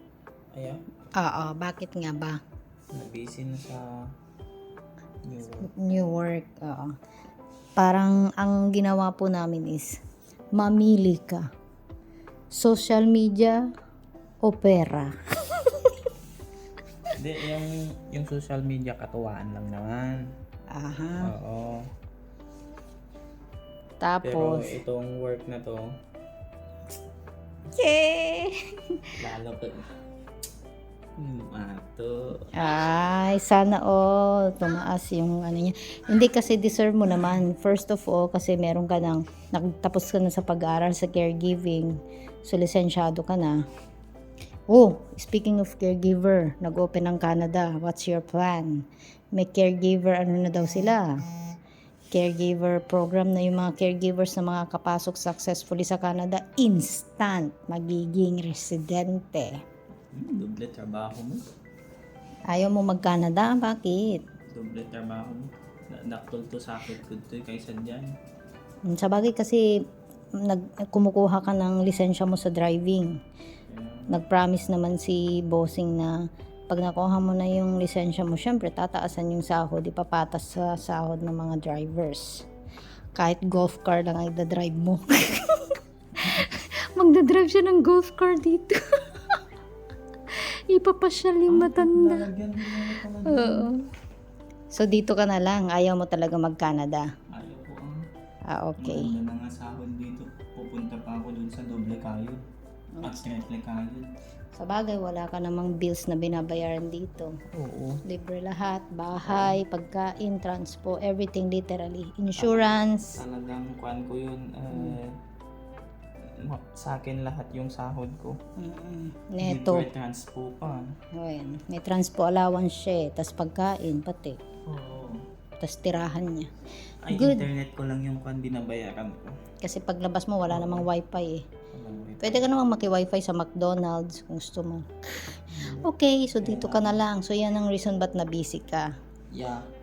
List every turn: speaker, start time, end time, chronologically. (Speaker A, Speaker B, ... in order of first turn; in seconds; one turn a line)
Speaker A: 0.5-0.8
Speaker B: 1.2-2.4
Speaker A: 2.9-4.0
Speaker A: 5.2-5.7
Speaker B: 5.6-6.9
Speaker B: 7.8-10.0
Speaker B: 10.5-11.5
Speaker B: 12.5-13.6
Speaker B: 14.4-16.0
Speaker A: 17.1-20.2
Speaker B: 20.7-21.3
Speaker A: 21.2-21.9
Speaker B: 24.0-24.8
Speaker A: 24.2-25.9
Speaker B: 27.7-29.1
Speaker A: 29.2-29.9
Speaker A: 31.2-32.5
Speaker B: 32.5-43.6
Speaker B: 44.7-51.2
Speaker B: 52.1-59.6
Speaker A: 60.1-61.4
Speaker B: 62.5-64.2
Speaker A: 64.5-68.1
Speaker B: 68.9-69.6
Speaker B: 70.3-73.2
Speaker A: 73.7-74.2
Speaker B: 74.1-76.2
Speaker B: 76.7-82.5
Speaker B: 83.1-89.4
Speaker B: 90.3-92.3
Speaker A: 91.5-93.7
Speaker B: 93.2-93.8
Speaker B: 94.7-97.1
Speaker A: 97.3-98.0
Speaker B: 98.5-99.1
Speaker A: 98.8-102.4
Speaker B: 103.0-103.2
Speaker A: 103.0-104.1
Speaker B: 104.5-107.3
Speaker A: 107.5-108.0
Speaker B: 108.0-113.2
Speaker A: 109.3-109.6
Speaker A: 112.4-115.2
Speaker B: 114.7-115.0
Speaker A: 116.3-118.4
Speaker B: 118.6-119.9
Speaker A: 119.4-120.9
Speaker B: 121.1-124.4
Speaker A: 124.7-125.2
Speaker B: 125.6-126.5
Speaker A: 127.0-129.3
Speaker B: 127.1-127.5
Speaker B: 129.6-131.5
Speaker A: 130.5-130.9
Speaker A: 131.7-132.5
Speaker B: 132.2-138.9
Speaker A: 135.5-135.9
Speaker A: 136.4-137.0
Speaker A: 139.3-139.7